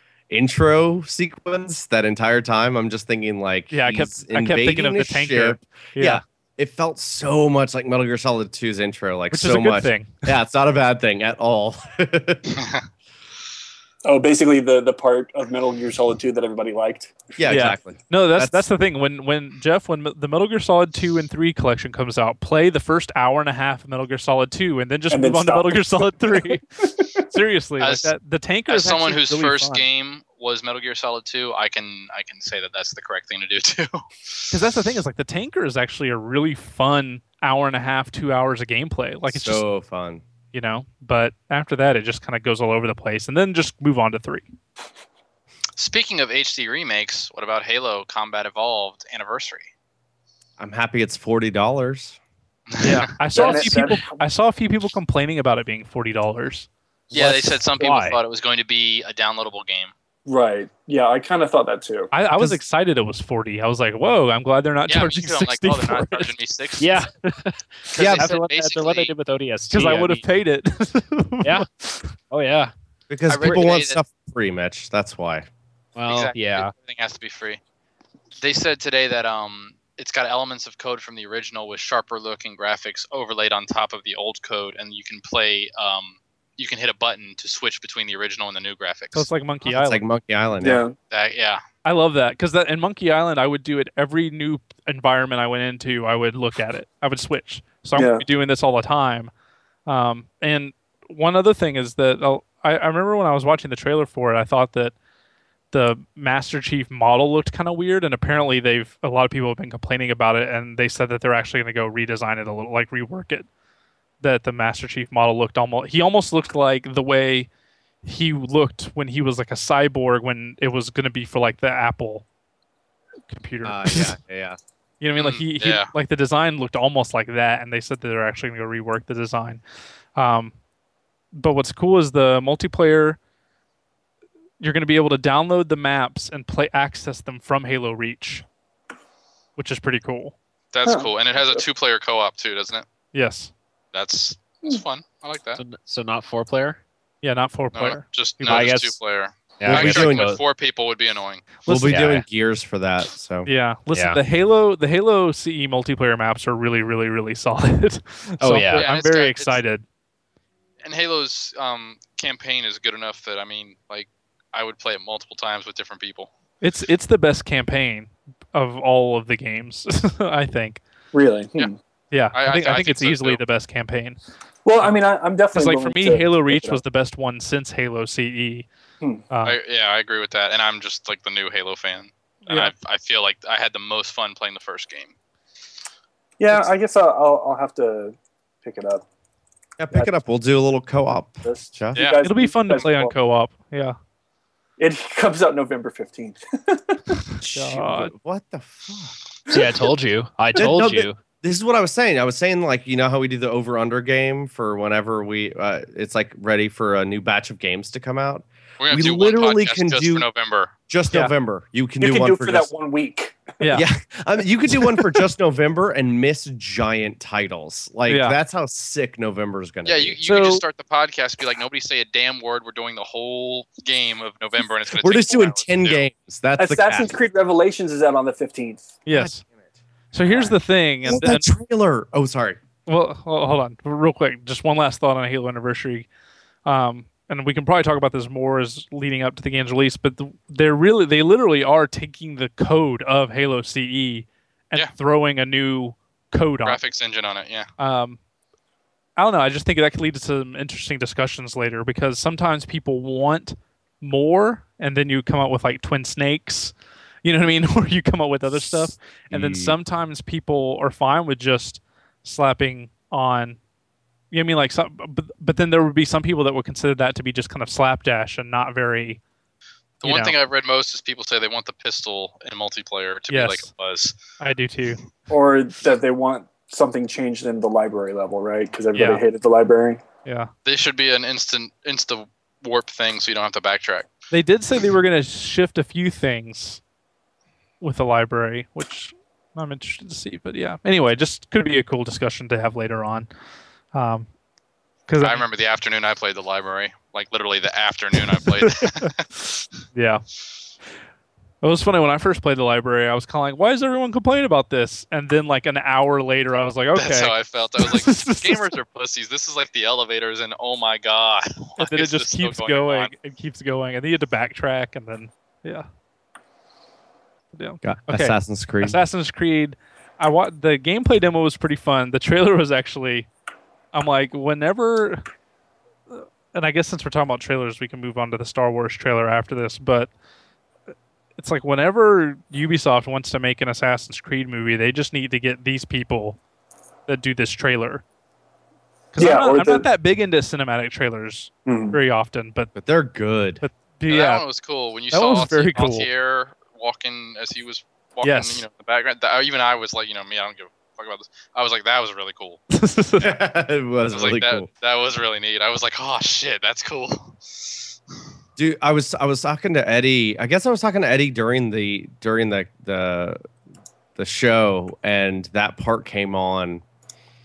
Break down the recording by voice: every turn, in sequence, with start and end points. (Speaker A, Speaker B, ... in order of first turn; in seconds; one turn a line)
Speaker A: 0.3-12.6
Speaker B: 3.7-6.2
Speaker B: 9.3-10.3
Speaker C: 12.6-12.8
Speaker D: 14.1-17.3
Speaker A: 17.4-18.6
Speaker B: 17.5-26.6
Speaker D: 25.1-27.2
Speaker B: 27.2-29.8
Speaker C: 27.8-28.1
Speaker C: 28.7-34.0
Speaker B: 34.5-39.6
Speaker A: 39.3-40.2
Speaker B: 40.5-44.5
Speaker C: 45.8-49.7
Speaker A: 50.6-52.2
Speaker C: 52.7-53.1
Speaker B: 52.8-56.7
Speaker D: 53.3-54.2
Speaker E: 57.1-58.2
Speaker C: 57.1-59.9
Speaker D: 60.3-62.1
Speaker B: 62.1-66.3
Speaker C: 64.9-66.9
Speaker E: 66.8-70.2
Speaker C: 67.9-69.1
Speaker A: 68.0-68.3
Speaker B: 69.7-72.1
Speaker E: 72.3-72.7
Speaker A: 73.1-75.5
Speaker C: 73.3-74.0
Speaker E: 76.0-76.7
Speaker C: 76.1-77.6
Speaker C: 78.4-89.3
Speaker B: 89.1-90.0
Speaker A: 89.7-90.8
Speaker D: 90.6-91.0
Speaker C: 91.1-91.6
Speaker B: 91.8-99.3
Speaker D: 98.0-98.2
Speaker B: 99.9-105.0
Speaker B: 105.7-113.5
Speaker B: 114.2-117.5
Speaker B: 118.0-122.2
Speaker B: 123.3-124.2
Speaker A: 123.6-124.6
Speaker B: 125.0-129.6
Speaker C: 125.2-125.9
Speaker B: 130.2-130.6
Speaker B: 131.3-133.2
Speaker B: 134.6-138.4
Speaker B: 139.6-140.3
Speaker C: 140.7-142.9
Speaker D: 140.8-141.6
Speaker B: 143.1-143.5
Speaker C: 143.9-145.6
Speaker E: 145.6-146.8
Speaker B: 147.2-148.9
Speaker C: 147.7-151.5
Speaker E: 148.5-148.9
Speaker E: 149.6-150.4
Speaker A: 149.7-150.4
Speaker B: 151.7-152.0
Speaker A: 151.7-153.5
Speaker E: 151.8-152.2
Speaker B: 153.5-159.8
Speaker E: 153.9-154.2
Speaker E: 158.4-158.9
Speaker C: 158.7-159.6
Speaker C: 160.8-166.3
Speaker B: 166.6-170.8
Speaker D: 171.1-171.8
Speaker B: 172.1-174.2
Speaker C: 172.3-173.4
Speaker D: 174.7-176.8
Speaker B: 175.5-178.7
Speaker B: 179.3-179.6
Speaker C: 179.4-185.1
Speaker B: 182.5-182.7
Speaker D: 186.4-189.1
Speaker A: 189.8-192.0
Speaker D: 191.4-193.1
Speaker C: 191.9-192.2
Speaker B: 192.2-194.0
Speaker D: 194.8-197.2
Speaker A: 197.4-199.2
Speaker B: 197.5-198.1
Speaker E: 199.5-201.2
Speaker A: 200.6-210.3
Speaker C: 208.8-210.7
Speaker A: 210.9-212.7
Speaker D: 212.0-213.5
Speaker B: 213.6-213.9
Speaker A: 213.7-220.6
Speaker B: 218.1-218.4
Speaker C: 219.8-226.0
Speaker A: 225.0-227.1
Speaker D: 226.6-229.0
Speaker B: 229.1-229.4
Speaker A: 229.1-229.6
Speaker B: 230.1-231.5
Speaker A: 231.1-232.6
Speaker B: 232.9-236.1
Speaker B: 236.7-246.8
Speaker C: 246.7-247.7
Speaker B: 247.8-248.2
Speaker B: 249.2-263.6
Speaker A: 259.3-259.8
Speaker B: 264.3-269.2
Speaker C: 270.0-274.2
Speaker B: 270.0-270.3
Speaker B: 273.3-273.7
Speaker B: 274.4-275.1
Speaker D: 275.3-280.0
Speaker B: 278.9-279.2
Speaker B: 280.2-280.5
Speaker C: 280.7-284.1
Speaker B: 284.3-286.8
Speaker B: 287.8-293.3
Speaker B: 293.9-294.3
Speaker B: 295.1-295.4
Speaker C: 295.2-299.3
Speaker B: 298.3-299.1
Speaker B: 299.9-300.2
Speaker B: 301.6-308.7
Speaker C: 307.0-313.1
Speaker B: 311.8-315.9
Speaker B: 317.5-323.3
Speaker A: 317.8-319.0
Speaker B: 323.9-325.2
Speaker B: 326.1-330.1
Speaker B: 331.4-336.4
Speaker B: 337.1-338.0
Speaker B: 339.1-342.7
Speaker D: 339.2-339.9
Speaker D: 341.7-342.0
Speaker A: 342.8-343.6
Speaker B: 343.6-344.4
Speaker C: 344.1-352.6
Speaker B: 345.1-346.1
Speaker B: 348.2-348.6
Speaker B: 352.7-353.4
Speaker A: 353.2-354.7
Speaker C: 354.1-357.4
Speaker A: 358.6-363.4
Speaker A: 364.2-366.8